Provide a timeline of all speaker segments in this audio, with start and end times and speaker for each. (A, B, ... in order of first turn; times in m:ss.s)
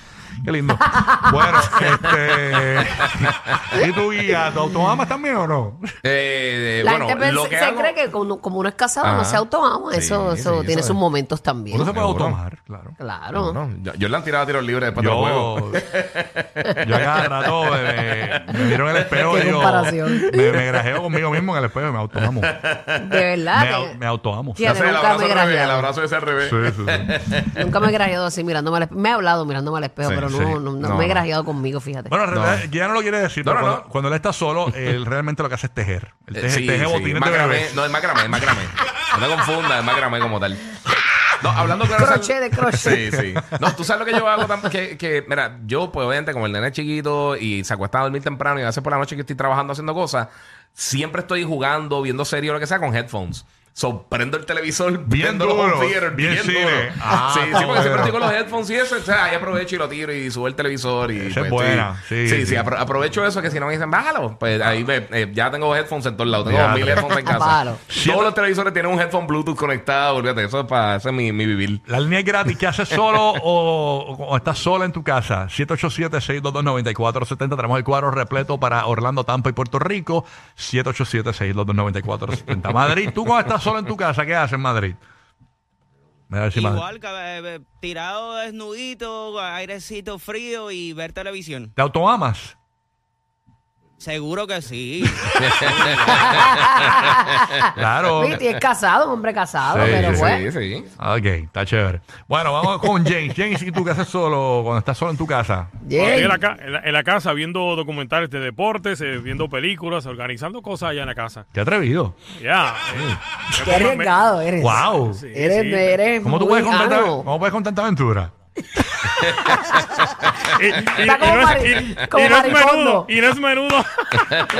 0:00.4-0:06.0 A
0:06.0-0:07.9 B
0:06.8-0:11.9 C
0:09.0-0:11.0 B
0:11.7-0:12.9 A
0:11.9-0:12.4 B
0:13.0-0:13.6 C
0:13.3-0:18.7 B
0:14.9-0:15.8 A
0:16.8-0:22.6 A
0:19.3-0:20.6 C
0:22.4-0:22.9 B
0:23.0-0:24.0 C
0:23.5-0:24.7 A
0:24.5-0:25.9 C
0:24.6-0:27.6 B
0:26.4-0:27.2 A
0:27.5-0:32.1 C
0:30.0-0:31.2 B
0:30.3-0:30.6 A
0:32.1-0:38.6 A
0:32.3-0:32.7 B
0:33.4-0:33.8 B
0:36.4-0:40.8 B
0:41.4-1:11.8 B
0:42.0-0:43.0 C
0:55.0-0:58.3 A
1:01.1-1:02.7 A
1:06.4-1:07.1 A
1:07.2-1:07.8 C
1:07.9-1:08.3 A
1:11.9-1:25.0 A
1:26.3-1:26.8 A
1:26.6-1:31.7 D
1:31.8-1:32.6 A
1:34.0-1:36.5 D
1:35.4-1:36.3 B
1:36.3-1:37.6 C
1:37.7-1:38.4 A
1:38.1-1:40.5 C
1:39.6-1:40.3 A
1:39.8-1:40.9 B
1:41.0-1:45.7 A
1:45.8-1:46.4 C
1:45.9-1:51.4 E
1:51.5-1:52.2 A
1:52.3-1:54.2 E
1:53.6-1:57.3 C
1:54.6-1:55.2 A
1:55.1-1:56.0 E
1:56.2-1:58.3 A
2:00.4-2:04.4 E
2:00.8-2:03.1 C